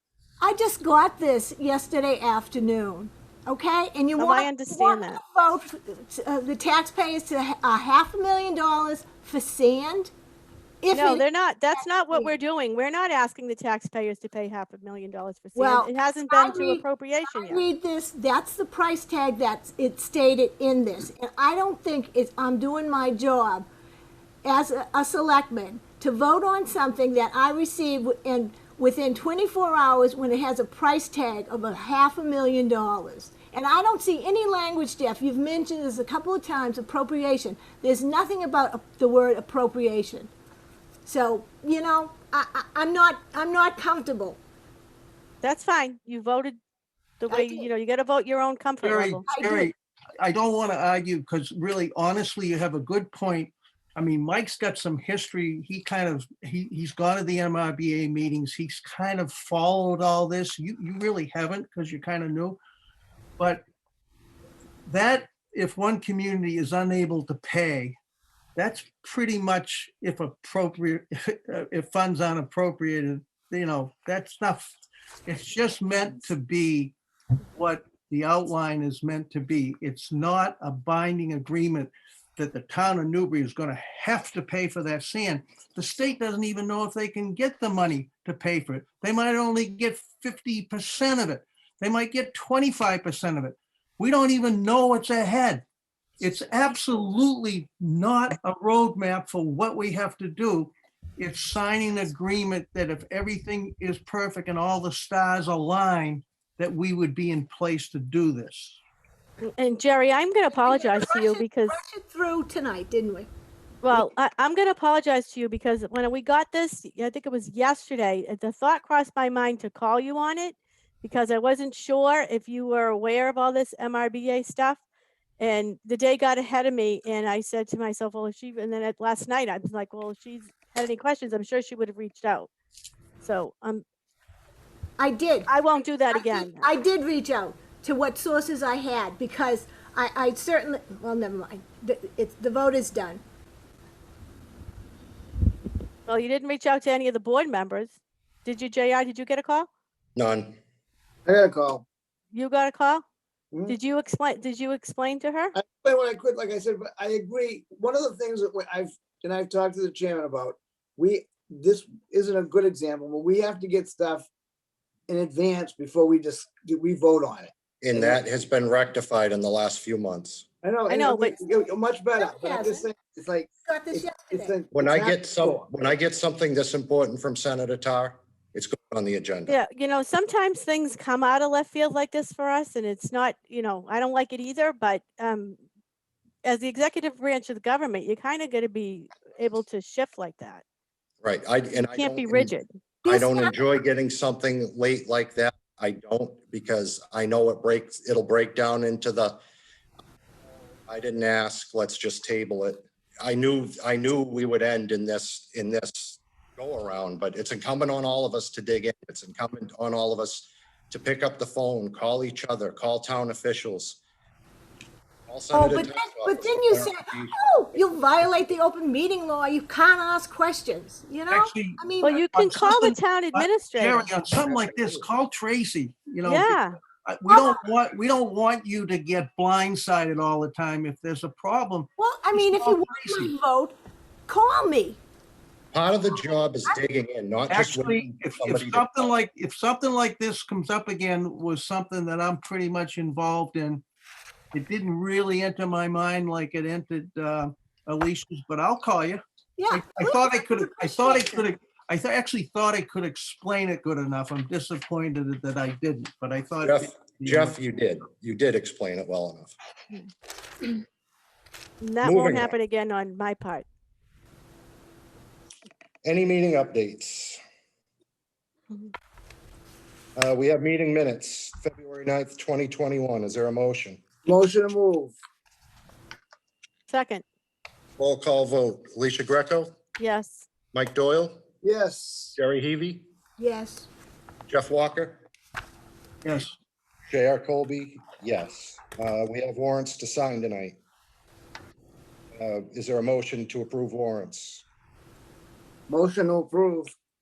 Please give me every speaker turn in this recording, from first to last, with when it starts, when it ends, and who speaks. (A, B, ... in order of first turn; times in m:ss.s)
0:00.4-0:10.1 A
0:04.2-0:05.2 B
0:10.8-0:12.3 A
0:10.9-0:17.6 B
0:15.6-0:23.7 A
0:24.4-0:40.3 A
0:41.1-0:44.4 A
0:45.4-0:46.6 B
0:47.2-0:49.2 B
0:47.3-0:47.7 A
0:48.8-1:02.6 C
0:49.3-0:49.7 A
1:03.4-1:03.6 C
1:04.9-1:08.0 C
1:08.6-1:14.7 C
1:15.3-1:17.0 C
1:17.6-1:35.6 C
1:36.2-1:48.8 C
1:49.4-1:51.8 B
1:50.5-1:53.3 A
1:53.8-2:04.8 B
2:05.4-2:12.5 B
2:13.2-2:13.8 B
2:15.0-2:15.5 A
2:15.5-2:16.7 B
2:16.1-2:23.2 A
2:26.1-2:29.7 B
2:30.2-2:30.6 D
2:31.3-2:31.8 E
2:32.3-2:33.0 B
2:33.5-2:33.8 E
2:33.7-2:35.6 B
2:35.6-2:44.3 E
2:45.1-2:48.2 E
2:47.8-2:50.5 D
2:50.6-2:55.7 E
2:50.9-2:51.4 B
2:52.2-2:52.8 A
2:53.6-2:54.5 A
2:54.7-2:59.6 D
2:59.5-3:05.6 B
3:06.4-3:10.6 B
3:11.2-3:12.5 D
3:12.0-3:12.7 B
3:13.0-3:13.6 A
3:13.1-3:19.4 D
3:20.9-3:34.0 D
3:35.3-3:37.4 D
3:35.5-3:42.3 A
3:41.3-3:53.3 C
3:42.0-3:44.1 B
3:46.2-3:46.8 B
3:47.3-3:47.6 A
3:52.0-3:55.0 A
3:55.7-3:59.1 D
3:57.5-4:03.8 C
4:04.5-4:17.6 C
4:09.6-4:11.5 A
4:16.6-4:19.5 D
4:21.8-4:23.7 B
4:22.0-4:22.5 D
4:26.0-4:27.4 D
4:30.2-4:34.0 D
4:34.2-4:35.2 E
4:36.9-4:37.2 B
4:38.0-4:39.8 D
4:40.0-4:40.5 B
4:40.7-4:41.4 D
4:41.6-4:42.4 E
4:42.4-4:43.1 D
4:43.4-4:43.9 A
4:44.5-4:45.2 D
4:46.2-4:46.6 C
4:47.1-4:50.8 D
4:52.4-4:54.6 D
4:55.9-4:56.9 E